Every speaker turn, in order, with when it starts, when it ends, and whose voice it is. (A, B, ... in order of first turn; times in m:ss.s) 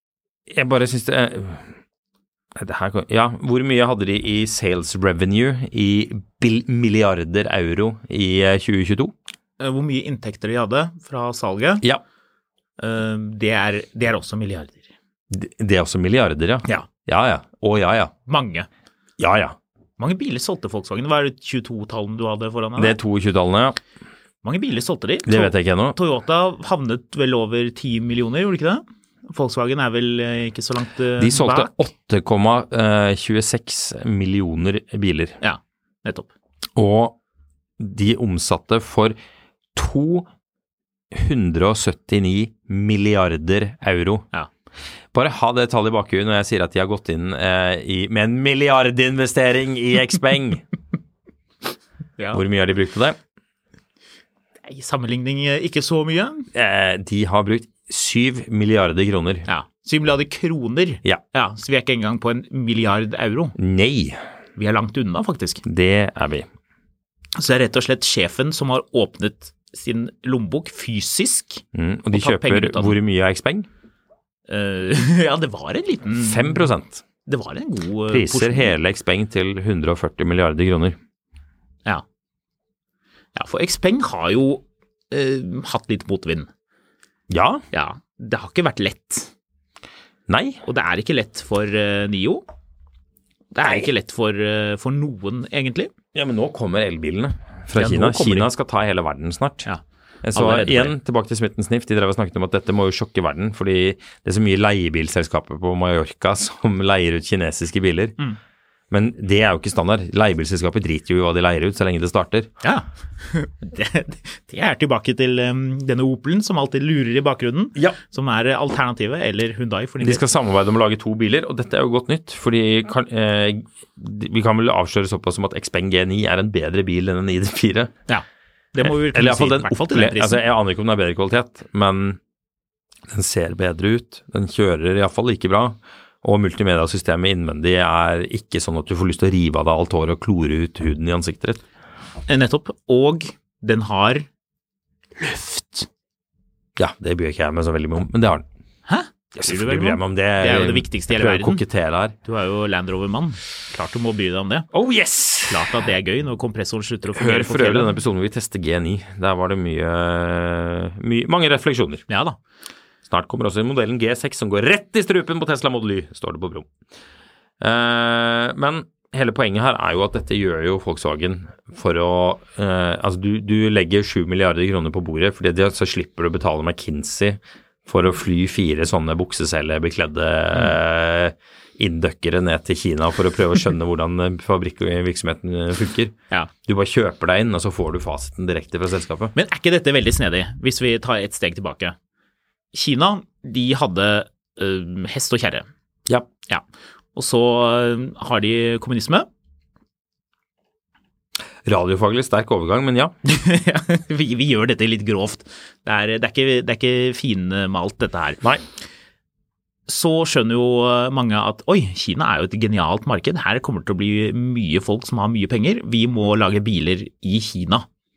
0:00.5-0:01.8 A
0:02.6-0:09.1 A
0:09.6-0:11.8 B
0:12.8-0:14.9 B
0:15.3-0:18.1 A
0:18.3-0:18.7 B
0:19.2-0:19.6 A
0:20.0-0:23.0 B
0:22.8-0:23.8 A
0:24.4-0:31.7 B
0:25.3-0:26.0 A
0:31.2-0:35.4 A
0:35.4-0:36.3 B
0:36.8-0:37.2 A
0:37.8-0:39.2 A
0:39.8-0:40.3 A
0:41.1-0:44.3 A
0:45.1-0:50.6 A
0:52.2-0:52.4 B
0:52.3-0:53.2 A
0:54.6-0:56.5 B
0:56.5-0:59.5 A
0:59.5-1:03.6 B
1:03.6-1:04.2 A
1:04.6-1:05.6 B
1:05.6-1:06.5 A
1:07.4-1:13.0 B
1:11.7-1:13.7 A
1:14.5-1:16.7 B
1:16.2-1:17.0 A
1:17.3-1:18.7 B
1:18.1-1:21.0 A
1:23.4-1:26.5 B
1:27.3-1:27.6 A
1:27.7-1:29.3 B
1:30.3-1:30.6 A
1:30.6-1:32.4 B
1:33.5-1:35.9 B
1:36.1-1:39.7 A
1:37.8-1:38.5 B
1:40.2-1:48.2 A
1:40.3-1:41.0 B
1:48.9-1:52.5 A
1:52.6-2:00.2 B
2:00.0-2:07.9 A
2:08.1-2:10.4 B
2:08.8-2:12.2 A
2:13.1-2:21.6 A
2:22.3-2:24.3 B
2:25.2-2:25.9 B
2:26.8-2:28.5 A
2:28.9-2:31.6 B
2:29.4-2:32.2 A
2:32.2-2:34.7 B
2:34.7-2:35.8 A
2:35.5-2:37.9 B
2:37.1-2:42.0 A
2:42.1-2:42.4 B
2:43.1-2:46.7 A
2:47.6-3:09.3 A
3:09.4-3:12.0 B
3:12.7-3:15.7 B
3:17.2-3:19.3 B
3:21.6-3:23.2 A
3:23.2-3:28.4 B
3:29.9-3:37.9 B